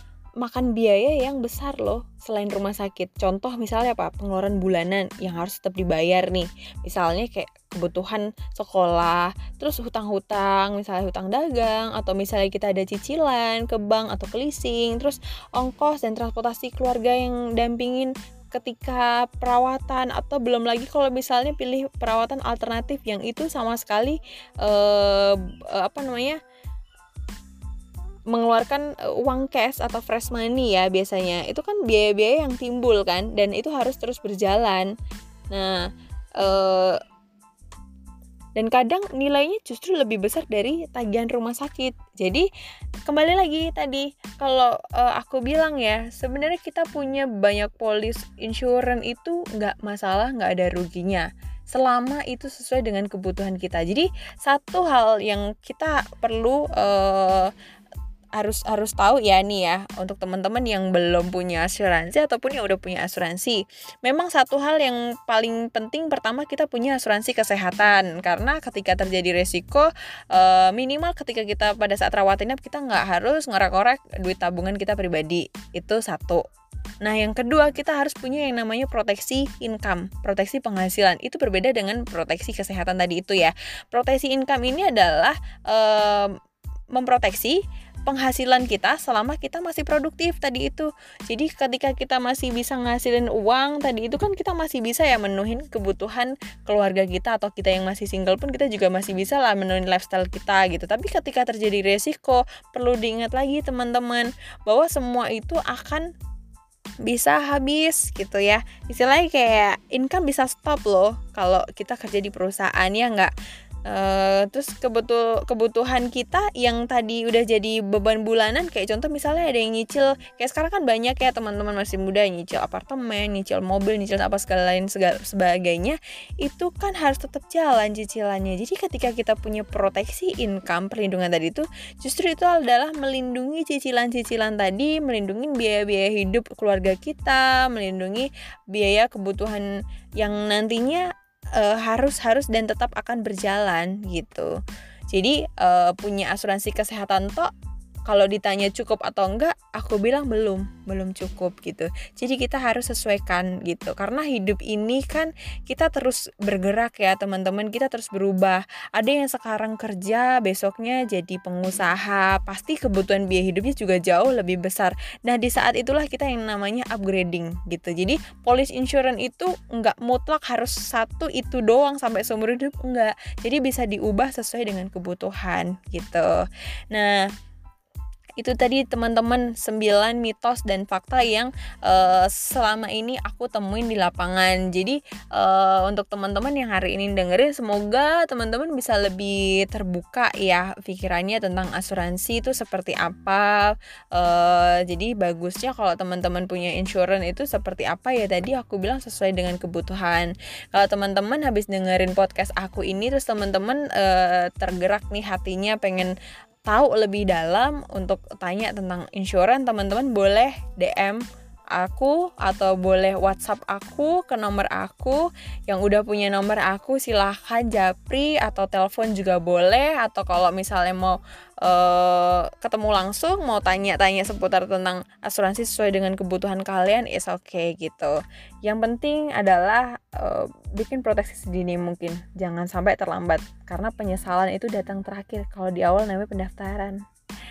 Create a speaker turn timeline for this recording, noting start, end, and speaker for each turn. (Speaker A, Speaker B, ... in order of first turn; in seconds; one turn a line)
Speaker A: 0.4-26.4
Speaker A: 28.3-34.9
Speaker A: 35.5-35.9
Speaker A: 36.4-37.0
Speaker A: 38.5-42.5
Speaker A: 43.0-57.5
Speaker A: 58.4-76.4
Speaker A: 77.0-86.3
Speaker A: 86.9-106.1
Speaker A: 107.1-113.3
Speaker A: 113.9-141.0
Speaker A: 141.6-144.5
Speaker A: 145.1-147.5
Speaker A: 148.1-177.3
Speaker A: 178.4-206.1
Speaker A: 206.7-211.2
Speaker A: 211.7-237.0